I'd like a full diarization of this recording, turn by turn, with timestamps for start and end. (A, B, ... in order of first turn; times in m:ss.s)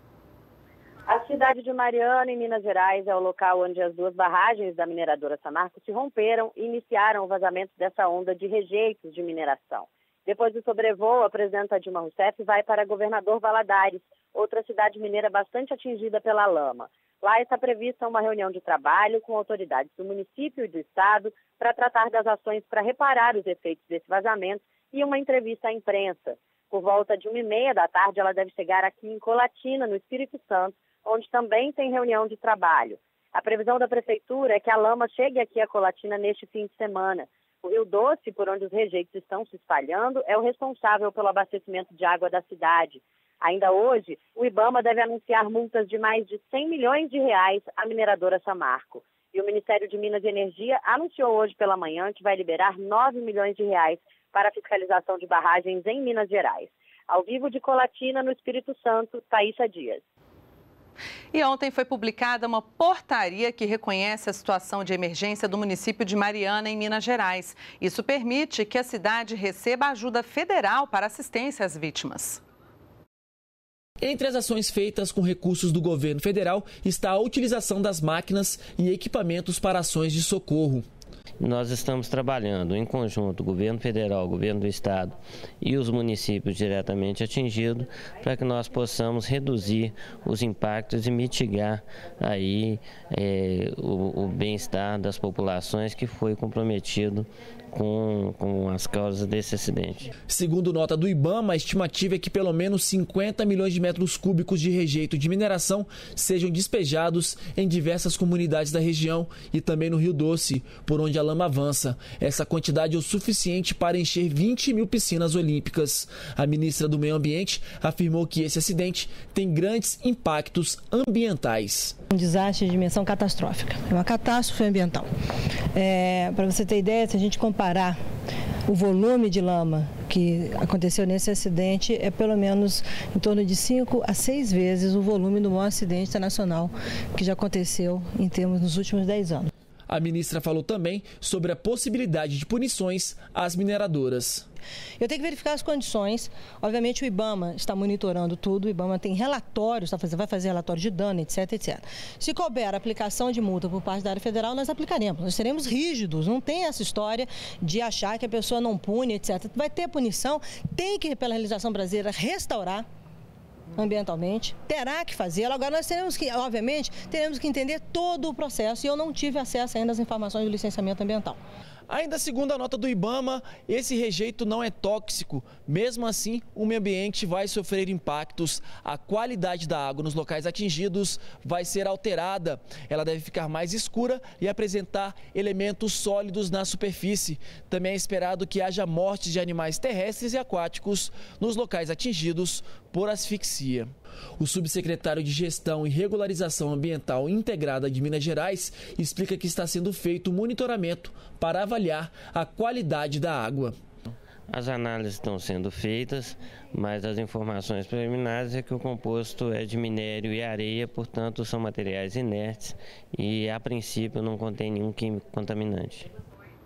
0:01.1-1:00.0 A
1:01.3-1:12.4 B
1:14.0-1:20.8 C
1:21.4-1:40.1 D
1:40.3-2:02.0 C
2:02.1-2:05.1 E
2:05.7-2:08.0 E
2:08.6-2:19.5 E
2:19.9-2:24.4 C
2:25.0-2:42.8 E
2:43.7-2:51.4 E
2:51.9-3:23.7 C
3:24.5-3:36.1 D